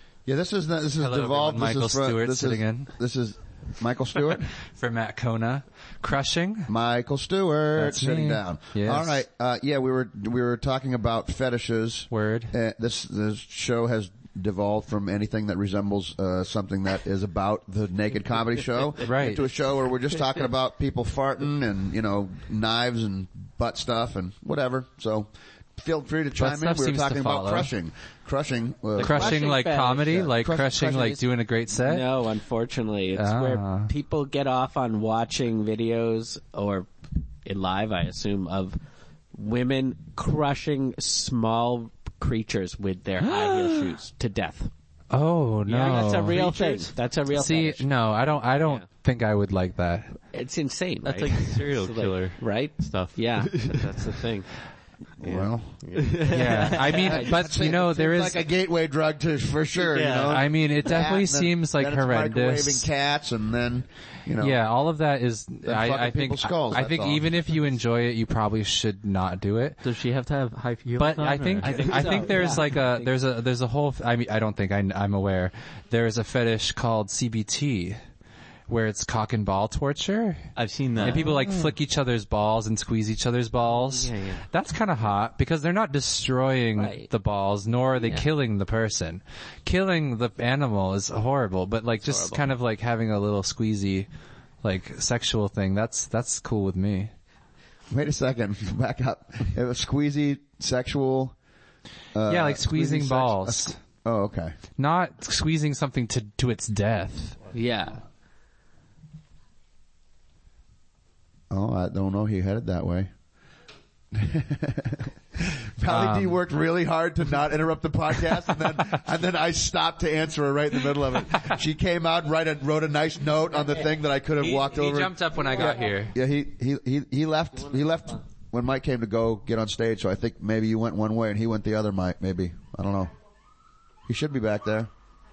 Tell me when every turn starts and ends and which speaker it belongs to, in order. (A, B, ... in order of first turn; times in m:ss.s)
0:00.2-0:04.5 A
0:01.0-0:02.9 B
0:04.7-0:06.7 B
0:06.7-0:31.2 A
0:07.7-0:09.2 B
0:12.1-0:12.5 B
0:19.0-0:19.4 B
0:26.4-0:27.7 B
0:29.0-0:30.3 C
0:29.0-0:32.1 B
0:31.7-0:36.9 C
0:33.1-0:33.9 B
0:37.4-0:38.8 C
0:39.3-0:44.7 C
0:43.3-0:43.9 B
0:45.1-0:46.8 B
0:45.6-0:48.9 C
0:47.3-0:50.2 B
0:50.3-0:54.5 C
0:51.0-0:53.8 D
0:55.2-0:55.8 A
0:55.2-0:57.6 C
0:56.0-0:56.8 D
0:56.3-0:58.4 B
0:57.0-1:04.6 A
0:59.8-1:00.4 D
1:00.3-1:02.9 B
1:04.4-1:09.8 B
1:05.6-1:07.7 A
1:09.8-1:12.6 D
1:11.0-1:18.0 B
1:11.6-1:13.2 C
1:18.7-1:20.5 B
1:20.5-1:21.3 D
1:21.0-1:21.7 C
1:21.0-1:34.1 B
1:23.6-1:24.5 C
1:26.8-1:27.1 C
1:28.0-1:28.3 C
1:32.0-1:32.5 C
1:34.6-1:37.1 B
1:37.9-1:41.3 A
1:42.1-1:44.6 A
1:42.3-1:43.8 B
1:44.8-1:47.4 B
1:47.5-1:48.0 C
1:51.5-1:53.1 A
1:54.1-2:13.1 A
1:55.9-1:56.4 B
2:04.4-2:06.1 B
2:14.1-2:14.9 A